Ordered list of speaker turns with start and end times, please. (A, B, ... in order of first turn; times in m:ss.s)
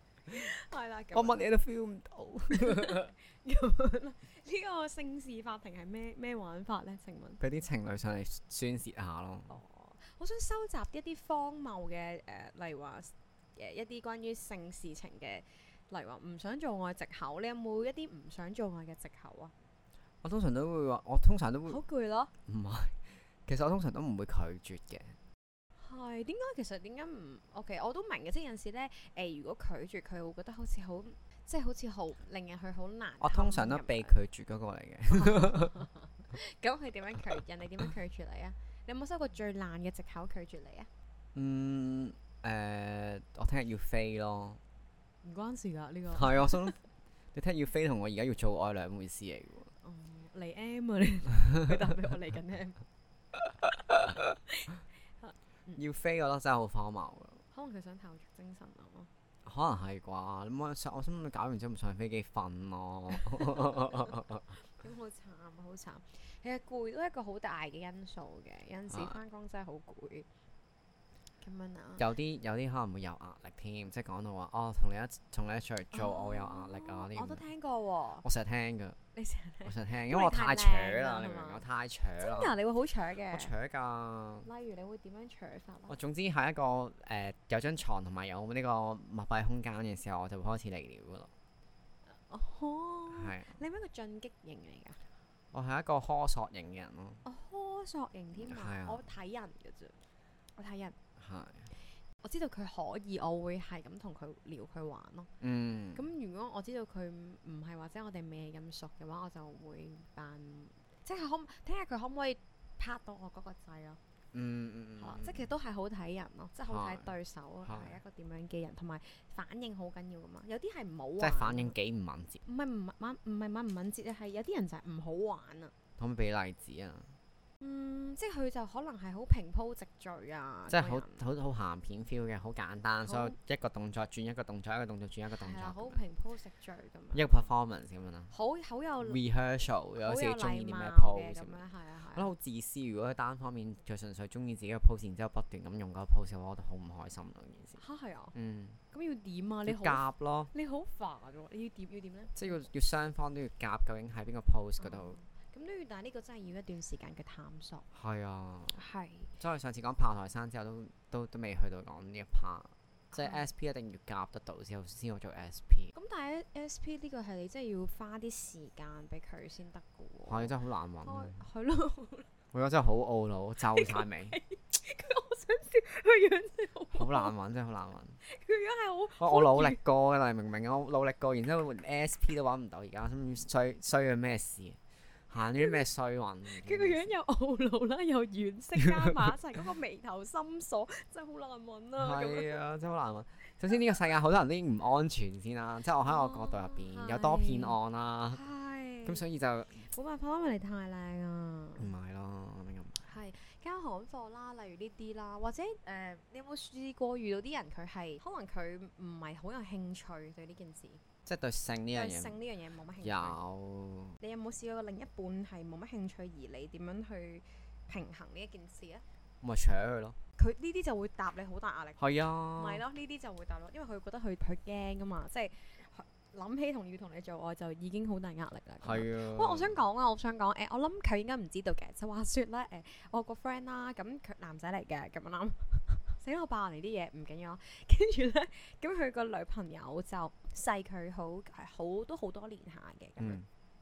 0:00.3-0:01.5 A
0:01.1-0:03.1 B
0:02.6-0:07.4 A
0:07.4-0:09.6 B
0:09.5-0:19.5 A
0:20.2-0:21.8 B
0:21.7-0:22.3 A
0:22.4-0:25.2 B
0:25.8-0:34.2 A
0:33.2-0:35.8 B
0:35.1-0:40.9 A
0:41.4-0:44.6 B
0:45.2-0:46.8 A
0:46.1-0:46.8 B
0:47.3-0:49.7 B
0:49.8-0:52.8 A
0:53.9-0:54.2 B
0:55.2-0:55.8 A
0:55.8-0:57.4 B
0:57.5-0:59.1 A
0:59.4-1:04.5 B
1:04.7-1:10.3 A
1:08.9-1:09.2 B
1:11.4-1:12.1 A
1:12.0-1:17.4 B
1:15.9-1:18.2 A
1:18.2-1:19.0 B
1:19.2-1:21.6 A
1:19.6-1:22.5 B
1:22.2-1:23.5 A
1:23.3-1:24.5 B
1:24.4-1:26.0 A
1:25.9-1:31.3 B
1:32.1-1:35.0 A
1:33.1-1:33.6 B
1:35.5-1:37.2 B
1:37.2-1:40.0 A
1:38.4-1:39.0 B
1:40.6-1:41.0 A
1:41.2-1:41.7 B
1:42.2-1:45.3 A
1:45.4-1:46.0 B
1:45.9-1:54.0 A
1:54.3-1:55.5 B
1:55.0-2:01.8 A
1:56.7-1:57.1 B
1:57.6-1:58.0 B
2:01.2-2:02.4 B
2:02.5-2:05.7 A
2:06.0-2:07.2 B
2:07.6-2:11.2 A
2:10.7-2:16.0 B
2:13.1-2:13.4 A
2:15.3-2:17.5 A
2:17.1-2:18.3 B
2:18.3-2:19.2 A
2:19.0-2:21.6 B
2:20.0-2:22.3 A
2:22.1-2:27.8 B
2:27.8-2:28.3 A
2:28.3-2:28.8 B
2:28.9-2:32.6 A
2:29.7-2:30.5 B
2:32.4-2:35.2 B
2:34.8-2:37.9 A
2:37.9-2:38.8 B
2:38.7-2:39.3 A
2:39.4-2:45.9 B
2:43.2-2:43.4 A
2:45.9-2:52.3 A
2:50.3-2:51.4 B
2:52.5-2:54.4 B
2:53.7-2:57.3 A
2:56.9-2:58.2 B
2:58.2-2:59.8 A
2:59.2-3:04.8 B
3:05.3-3:07.1 B
3:05.6-3:05.8 A
3:06.5-3:12.6 A
3:08.8-3:09.4 B
3:12.0-3:18.4 B
3:16.0-3:17.8 A
3:18.3-3:19.2 A
3:19.0-3:19.9 B
3:19.9-3:21.9 A
3:21.8-3:23.1 B
3:23.0-3:31.0 A
3:31.3-3:32.4 B
3:31.9-3:33.4 A
3:33.0-3:34.2 B
3:34.2-3:39.0 A
3:39.4-3:40.2 B
3:40.4-4:03.4 A
3:42.0-3:42.8 B
3:48.8-3:49.8 B
4:03.2-4:03.5 B